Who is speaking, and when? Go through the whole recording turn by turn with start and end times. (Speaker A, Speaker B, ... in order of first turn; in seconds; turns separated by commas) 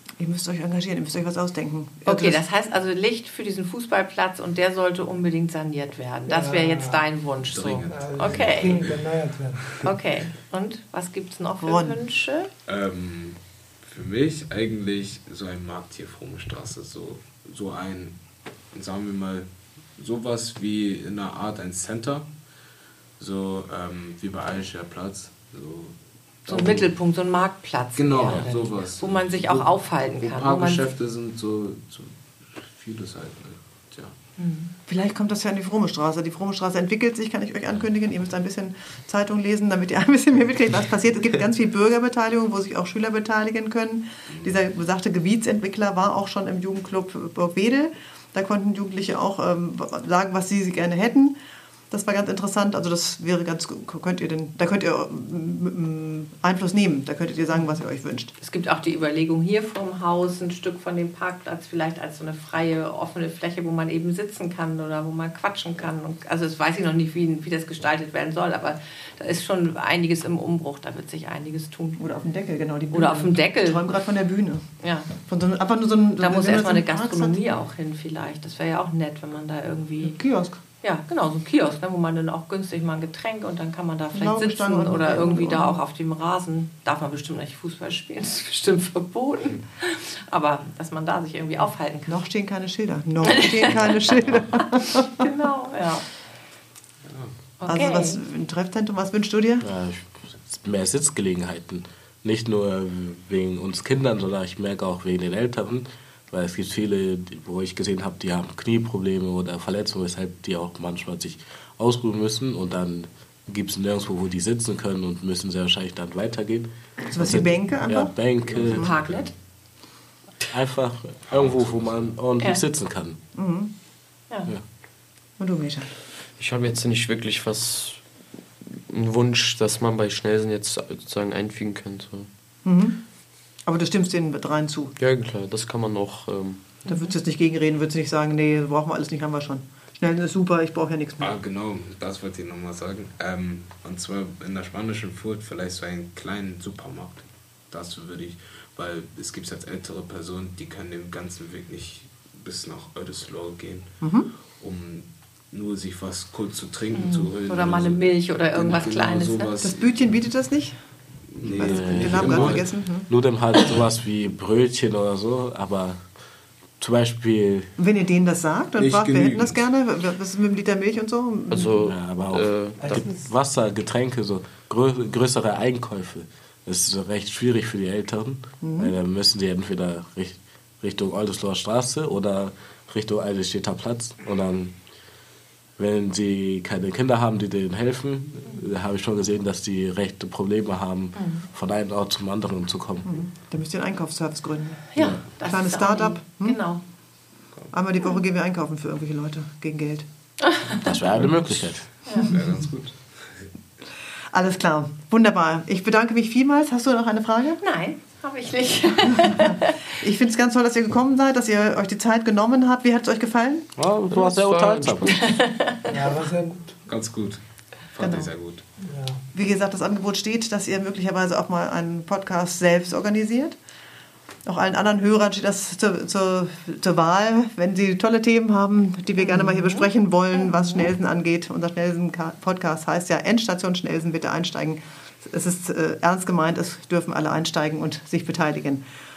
Speaker A: 0.2-2.4, Speaker B: 2.0-8.8, Speaker C: 6.3-7.0, Speaker D: 7.4-9.0, Speaker C: 7.9-9.8, Speaker B: 9.8-12.5, Speaker A: 11.6-12.0, Speaker D: 12.7-18.2, Speaker D: 18.7-22.3, Speaker D: 23.2-26.9, Speaker B: 26.5-30.9, Speaker D: 27.9-34.1, Speaker B: 34.4-34.7, Speaker A: 34.9-51.4, Speaker A: 51.9-58.3, Speaker B: 58.4-72.0, Speaker A: 72.0-77.4, Speaker B: 72.9-73.9, Speaker B: 74.8-75.1, Speaker B: 76.2-80.2, Speaker A: 80.0-80.6, Speaker B: 80.8-92.2, Speaker A: 84.1-85.8, Speaker A: 92.1-95.3, Speaker B: 93.2-96.0, Speaker D: 97.0-97.3, Speaker B: 97.6-98.2, Speaker A: 97.7-99.7, Speaker E: 99.6-119.0, Speaker A: 117.1-118.1, Speaker D: 118.5-119.2, Speaker B: 118.7-119.3, Speaker E: 120.5-123.2, Speaker D: 121.3-122.2, Speaker A: 123.3-123.7, Speaker A: 125.4-125.9, Speaker F: 126.4-128.0, Speaker F: 128.6-132.3, Speaker A: 132.6-133.0, Speaker A: 133.7-134.9, Speaker F: 135.0-136.6, Speaker B: 136.8-137.1, Speaker A: 136.9-141.3, Speaker D: 141.2-154.0, Speaker A: 154.0-154.3, Speaker D: 154.6-159.9, Speaker B: 156.9-159.6, Speaker A: 159.6-160.8, Speaker D: 161.3-162.7, Speaker E: 161.4-166.0, Speaker A: 161.6-163.1, Speaker E: 166.8-167.7, Speaker A: 167.8-171.8, Speaker D: 168.8-169.6, Speaker F: 171.5-173.1, Speaker E: 171.8-184.8, Speaker C: 172.8-173.3, Speaker A: 178.6-178.9, Speaker E: 185.8-193.1, Speaker B: 191.2-191.4, Speaker A: 193.1-196.6, Speaker B: 194.9-196.8, Speaker A: 197.7-200.0, Speaker B: 200.4-200.9, Speaker E: 200.7-201.9, Speaker B: 202.1-202.4, Speaker D: 202.1-203.4, Speaker A: 204.3-207.6, Speaker B: 207.6-209.9, Speaker A: 209.1-213.7, Speaker E: 213.8-215.2, Speaker F: 214.1-215.3, Speaker B: 215.1-216.0, Speaker C: 215.9-216.8, Speaker D: 216.9-218.6, Speaker A: 218.0-218.3, Speaker C: 218.8-219.2, Speaker A: 219.3-223.6, Speaker A: 224.4-238.8, Speaker B: 229.2-230.9